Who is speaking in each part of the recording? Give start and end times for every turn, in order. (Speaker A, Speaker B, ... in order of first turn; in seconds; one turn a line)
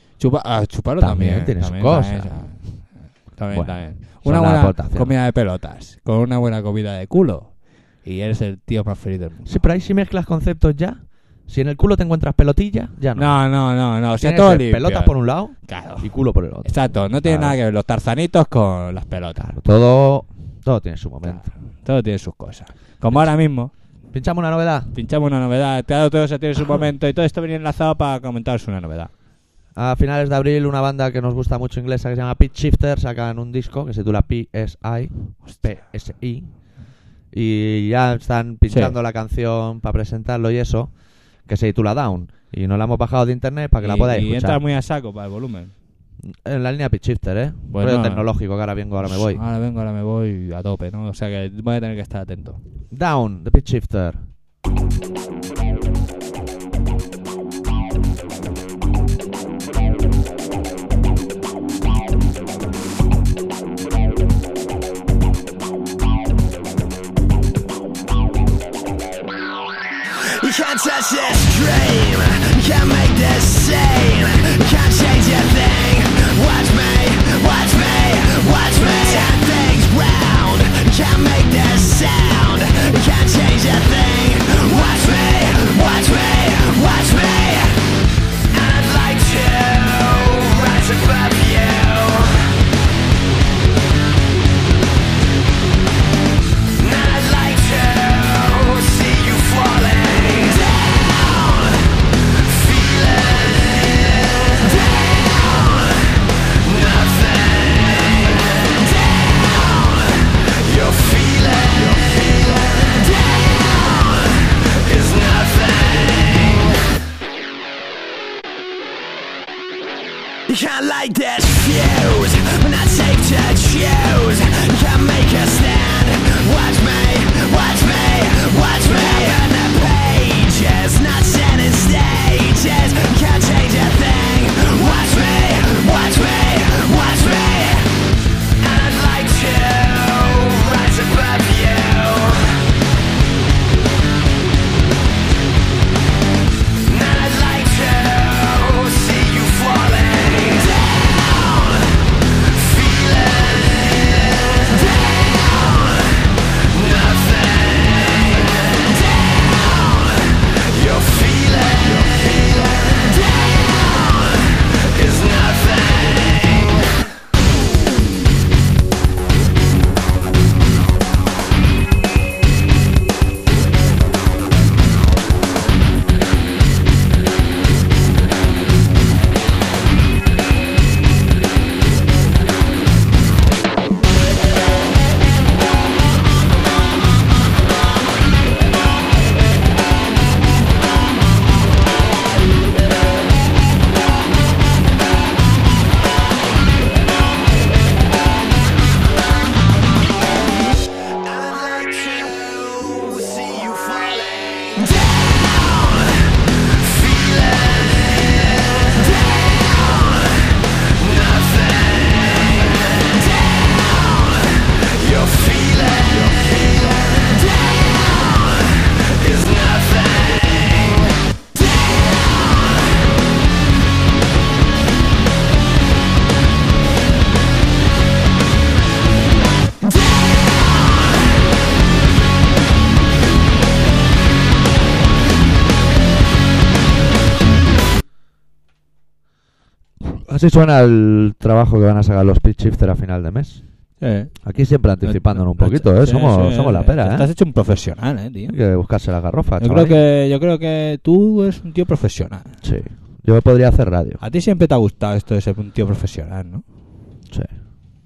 Speaker A: 0.2-9.6
Speaker B: 1.0-2.4
Speaker B: 3.5-5.1
Speaker B: 9.4-13.4
Speaker A: 13.1-15.1
Speaker B: 14.2-17.6
Speaker A: 15.6-16.1
Speaker A: 16.6-19.6
Speaker B: 19.4-21.5
Speaker A: 21.2-23.7
Speaker B: 24.1-24.9
Speaker A: 24.9-29.1
Speaker B: 29.8-36.5
Speaker B: 37.3-40.9
Speaker A: 38.7-38.9
Speaker B: 41.5-44.6
Speaker A: 43.8-45.7
Speaker B: 46.2-49.4
Speaker A: 47.7-48.3
Speaker A: 49.0-52.6
Speaker B: 52.9-54.2
Speaker C: 70.2-87.8
Speaker C: 88.5-92.6
Speaker C: 96.7-105.8
Speaker C: 106.5-114.0
Speaker C: 114.7-116.7
Speaker C: 120.5-137.9
Speaker C: 138.6-142.6
Speaker C: 146.8-151.8
Speaker C: 152.5-155.2
Speaker C: 156.6-158.8
Speaker C: 160.3-163.3
Speaker C: 164.8-166.9
Speaker C: 201.2-206.2
Speaker C: 206.8-212.3
Speaker C: 214.7-217.6
Speaker C: 219.0-221.1
Speaker B: 240.0-243.6
Speaker A: 244.0-244.3
Speaker B: 244.4-247.3
Speaker A: 245.0-248.6
Speaker B: 248.5-250.0
Speaker A: 249.6-252.6
Speaker B: 252.6-254.2
Speaker A: 254.2-256.6